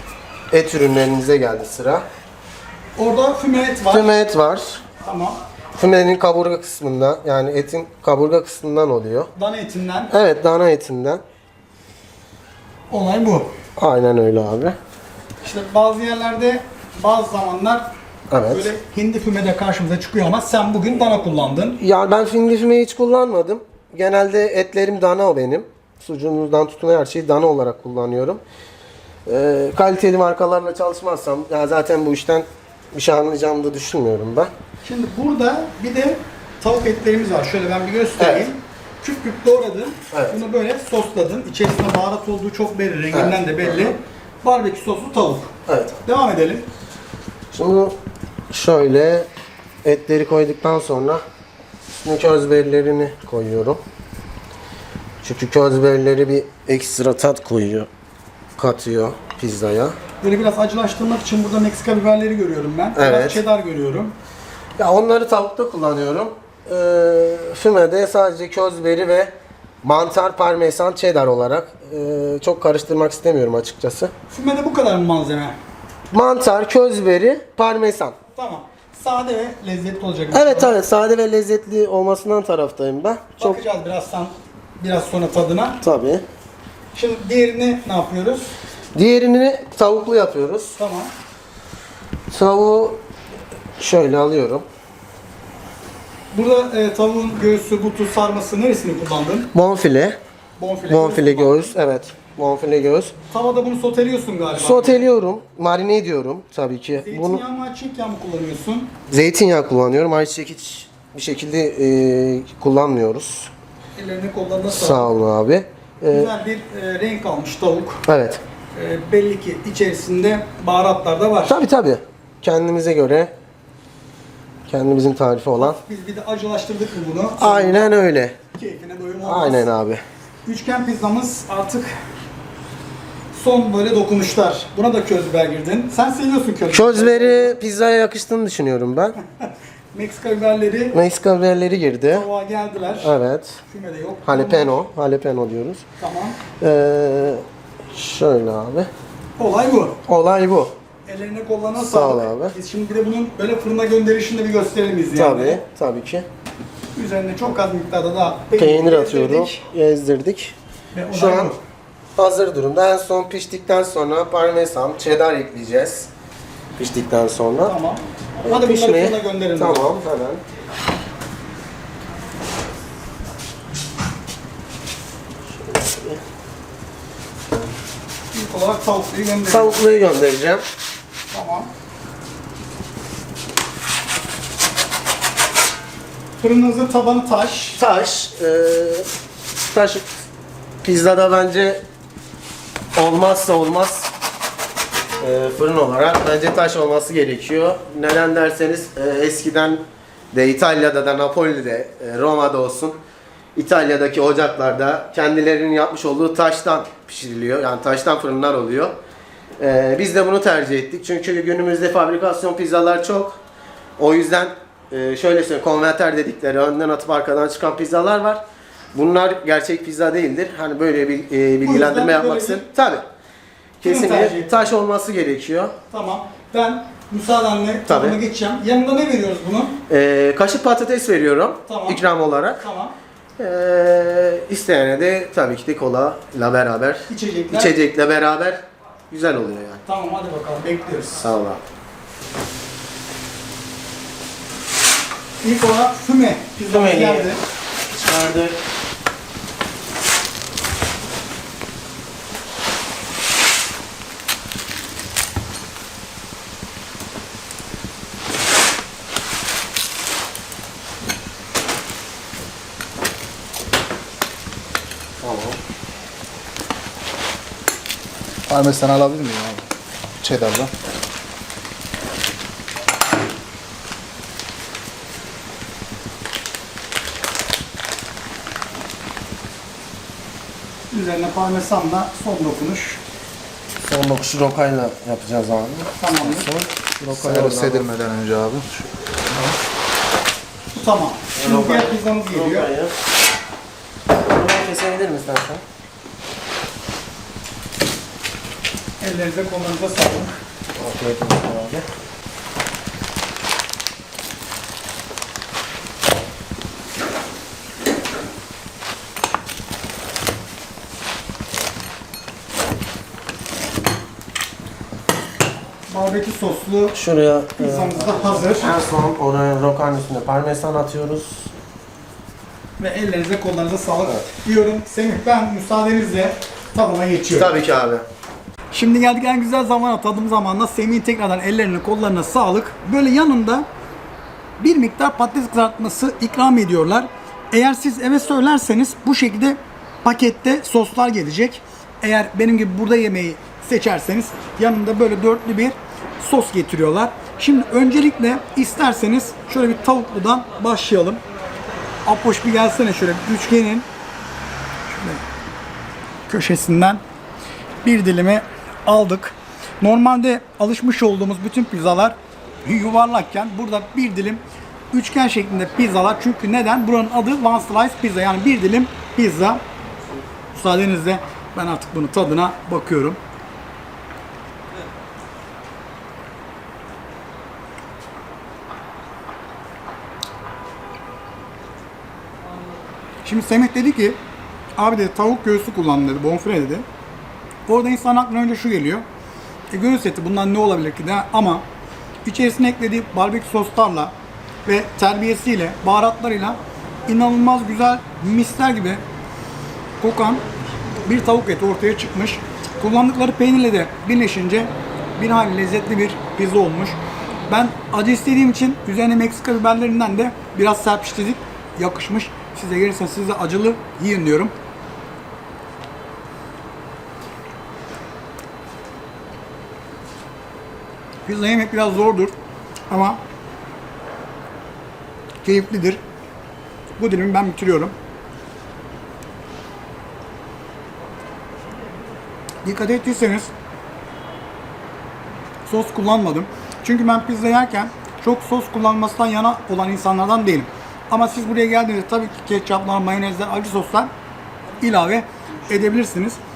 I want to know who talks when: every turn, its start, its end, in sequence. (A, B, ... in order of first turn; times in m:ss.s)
0:00.5-0:02.0 A
0:03.0-0:04.1 B
0:03.9-0:04.8 A
0:05.0-0:05.4 B
0:05.7-0:09.3 A
0:09.3-0:10.1 B
0:10.1-0:11.2 A
0:12.9-0:13.5 B
0:13.8-0:14.8 A
0:15.4-0:17.8 B
0:18.3-0:18.7 A
0:18.5-0:21.8 B
0:21.8-0:28.4 A
0:29.2-0:34.5 A
0:34.8-0:45.5 B
0:38.2-0:38.4 A
0:40.1-0:40.4 A
0:43.1-0:43.9 A
0:45.7-0:46.0 A
0:46.0-0:46.6 B
0:47.5-0:48.0 A
0:48.5-0:49.3 A
0:49.8-0:51.2 A
0:52.0-0:53.8 A
0:55.2-0:57.9 A
0:58.6-1:00.0 A
1:00.2-1:04.1 B
1:03.0-1:03.4 A
1:04.8-1:14.1 A
1:14.3-1:15.5 B
1:16.1-1:18.2 A
1:18.3-1:20.8 B
1:20.3-1:23.6 A
1:23.4-1:25.8 B
1:25.8-1:26.2 A
1:26.9-1:28.5 B
1:28.9-1:30.8 A
1:30.8-1:31.1 B
1:32.3-1:33.0 A
1:33.8-1:34.6 A
1:36.3-1:39.5 B
1:39.5-1:40.2 A
1:40.6-1:41.7 B
1:40.9-1:43.1 A
1:43.3-1:45.1 B
1:44.6-1:47.4 A
1:47.0-1:48.9 B
1:49.1-1:53.5 A
1:54.0-1:55.1 B
1:54.7-1:56.3 A
1:56.1-1:58.0 B
1:58.1-1:58.4 A
1:58.7-2:01.6 B
2:01.4-2:03.3 A
2:04.7-2:05.8 A
2:05.6-2:09.6 B
2:07.4-2:08.4 A
2:09.2-2:10.0 A
2:10.4-2:11.9 B
2:13.3-2:17.5 B
2:16.7-2:19.2 A
2:19.4-2:20.9 B
2:20.9-2:22.3 A
2:22.1-2:23.1 B
2:23.0-2:23.6 A
2:23.7-2:24.8 B
2:24.2-2:25.8 A
2:26.0-2:26.4 B
2:26.6-2:28.9 A
2:29.4-2:30.0 B
2:30.1-2:30.7 A
2:31.1-2:35.6 B
2:31.8-2:32.5 A
2:35.1-2:36.2 A
2:37.0-2:39.6 B
2:38.6-2:40.5 A
2:40.9-2:41.6 B
2:41.1-2:41.5 A
2:42.2-2:46.1 A
2:46.8-2:47.7 A
2:47.6-2:49.9 B
2:48.4-2:50.4 A
2:55.6-2:56.2 A
2:58.3-2:59.8 B
2:59.5-3:00.6 A
3:01.3-3:01.7 B
3:06.4-3:07.8 B
3:07.8-3:09.1 A
3:09.7-3:10.0 A
3:10.8-3:11.8 A
3:13.0-3:14.1 A
3:15.2-3:19.8 A
3:20.3-3:23.0 A
3:23.5-3:28.9 A
3:29.6-3:33.4 A
3:34.0-3:38.4 A
3:38.9-3:43.0 A
3:41.6-3:42.6 B
3:43.8-3:45.7 A
3:43.8-3:44.5 B
3:45.9-3:49.8 B
3:47.9-3:48.2 A
3:49.9-3:52.6 A
3:51.6-3:52.0 B
3:52.6-3:52.9 B
3:53.4-3:59.8 A
3:57.1-3:57.7 B
3:59.8-4:01.2 B
4:01.2-4:01.6 A
4:05.4-4:07.4 B
4:06.6-4:07.3 A
4:07.9-4:08.6 A
4:25.2-4:25.6 A
4:28.5-4:29.6 C
4:30.2-4:30.7 C
4:40.9-4:43.0 B
4:43.8-4:47.9 A
4:46.0-4:46.5 B
4:47.1-4:49.5 C
4:50.7-4:52.7 B
4:51.3-4:53.0 A
4:54.1-4:55.6 A
4:59.0-5:00.3 B
5:00.7-5:01.8 A
5:15.9-5:17.0 B
5:16.9-5:21.5 A
5:17.6-5:18.8 B
5:22.8-5:27.5 B
5:27.3-5:28.0 A
5:28.7-5:33.6 B
5:34.6-5:51.2 B
5:52.0-5:53.8 B
5:54.9-5:55.2 B
5:56.3-5:57.0 B
5:57.8-6:04.4 B
6:04.9-6:09.6 B
6:10.5-6:13.2 B
6:23.2-6:24.2 B
6:24.8-6:26.8 B
6:27.7-6:29.0 B
6:29.7-6:31.6 B
6:32.2-6:34.1 B
6:34.6-6:39.0 B
6:40.0-6:40.4 B
6:41.0-6:54.5 B
7:01.2-7:02.3 B
7:02.9-7:03.2 B
7:05.4-7:06.0 B
7:07.0-7:07.9 B
7:12.6-7:13.5 B
7:15.7-7:24.1 B
7:24.8-7:26.4 B